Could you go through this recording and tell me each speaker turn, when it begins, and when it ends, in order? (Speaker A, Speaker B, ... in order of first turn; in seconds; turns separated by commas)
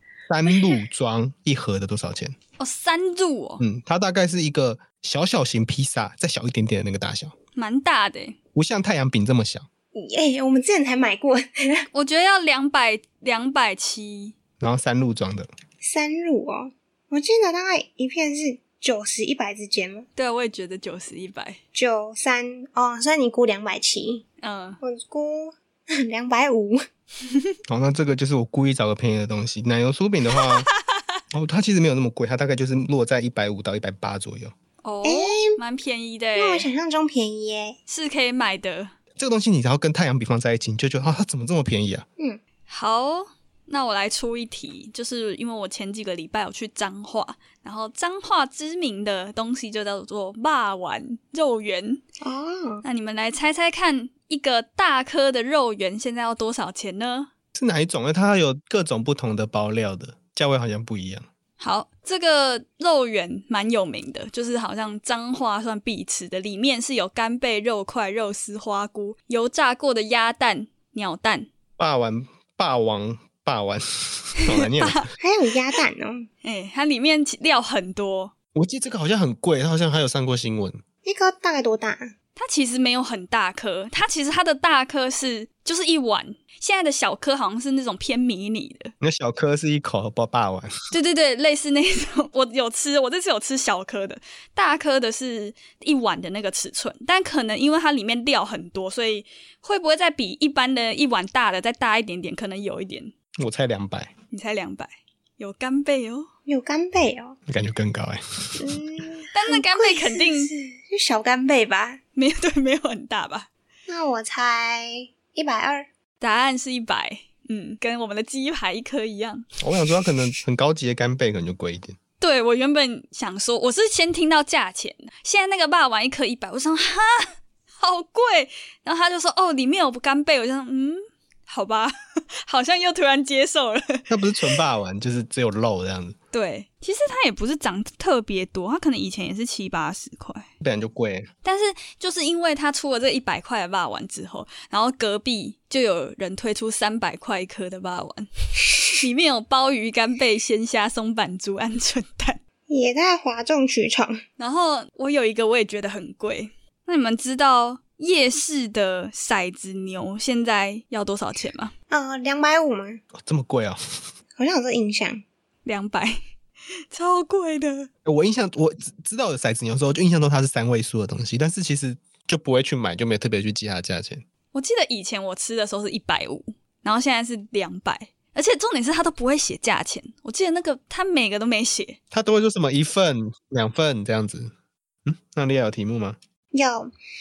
Speaker A: 0.3-2.4, Speaker B: 2.6-3.6, Speaker A: 3.6-7.3, Speaker B: 7.5-8.4, Speaker A: 8.5-9.7, Speaker C: 9.9-11.9, Speaker B: 11.9-14.3, Speaker A: 14.6-15.5, Speaker C: 15.8-20.1, Speaker B: 20.1-21.6, Speaker C: 21.7-24.2, Speaker B: 24.4-24.8, Speaker C: 24.8-26.8, Speaker A: 27.7-30.7, Speaker A: 31.3-34.5, Speaker B: 34.8-36.7, Speaker C: 35.0-35.6, Speaker C: 36.4-37.8, Speaker B: 37.9-38.9, Speaker A: 39.2-42.0, Speaker B: 42.7-52.0, Speaker C: 52.2-52.8, Speaker B: 52.8-57.3, Speaker A: 57.5-61.3, Speaker B: 61.6-71.5, Speaker A: 71.8-75.1, Speaker B: 74.6-75.0, Speaker C: 75.2-76.3, Speaker B: 76.4-78.3, Speaker A: 78.5-80.8, Speaker C: 81.0-82.1, Speaker B: 82.3-88.9, Speaker A: 89.0-90.7, Speaker B: 90.9-103.1, Speaker A: 103.4-104.1, Speaker B: 104.3-106.3, Speaker C: 106.5-107.4, Speaker A: 107.5-108.7, Speaker C: 108.6-112.0, Speaker B: 109.3-110.5, Speaker B: 112.1-113.5, Speaker C: 113.9-115.9, Speaker B: 116.2-119.5, Speaker A: 119.6-122.0, Speaker B: 122.2-131.9, Speaker B: 132.4-134.6, Speaker A: 134.1-136.2, Speaker B: 136.3-140.4, Speaker A: 140.6-141.3, Speaker B: 141.4-148.3, Speaker B: 149.0-152.4, Speaker C: 152.7-154.2, Speaker B: 154.4-161.7, Speaker C: 161.9-163.0, Speaker A: 163.1-163.8, Speaker C: 164.3-165.2, Speaker B: 165.6-166.2, Speaker B: 166.9-167.9, Speaker A: 168.0-174.2, Speaker B: 174.5-182.0, Speaker A: 182.1-184.5, Speaker A: 185.1-186.2, Speaker C: 186.5-186.9